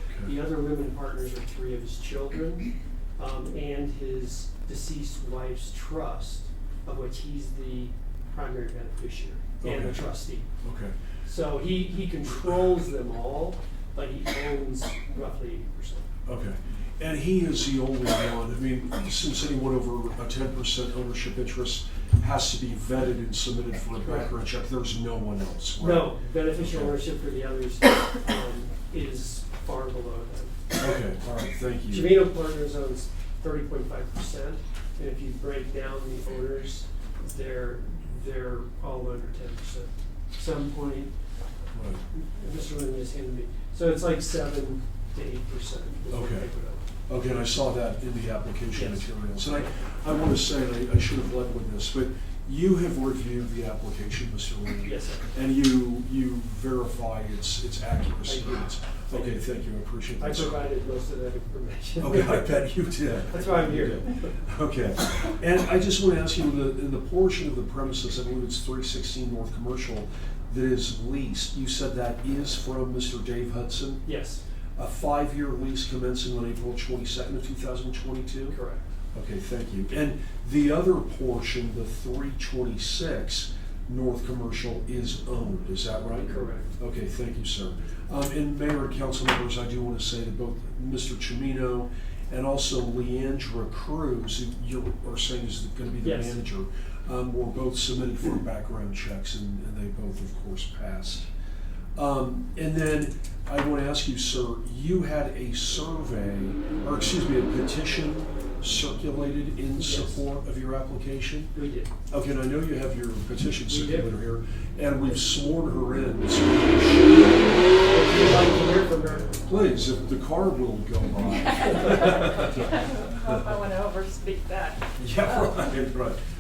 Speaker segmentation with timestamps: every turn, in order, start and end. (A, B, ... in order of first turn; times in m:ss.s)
0:00.2-0:10.4 A
0:09.6-0:10.0 B
0:10.6-0:11.0 B
0:11.2-0:16.1 A
0:16.2-0:27.0 B
0:25.8-0:30.6 A
0:30.8-0:32.3 B
0:31.9-0:41.1 A
0:41.7-0:42.0 B
0:42.1-0:46.8 A
0:46.1-0:46.5 B
0:47.1-1:00.6 B
0:48.7-0:49.1 A
0:54.8-0:55.3 A
0:58.2-0:59.4 A
1:00.2-1:02.6 A
1:02.0-1:14.0 B
1:03.3-1:04.3 A
1:14.0-1:14.4 A
1:14.8-1:18.6 B
1:18.5-1:18.8 A
1:19.1-1:41.3 B
1:26.3-1:26.7 A
1:36.0-1:36.4 A
1:42.0-1:51.5 B
1:49.8-1:50.2 A
1:51.5-1:51.9 A
1:52.1-1:57.9 B
1:53.7-1:54.1 A
1:57.9-1:59.4 A
1:59.4-2:02.7 B
2:01.2-2:05.8 C
2:05.0-2:06.2 B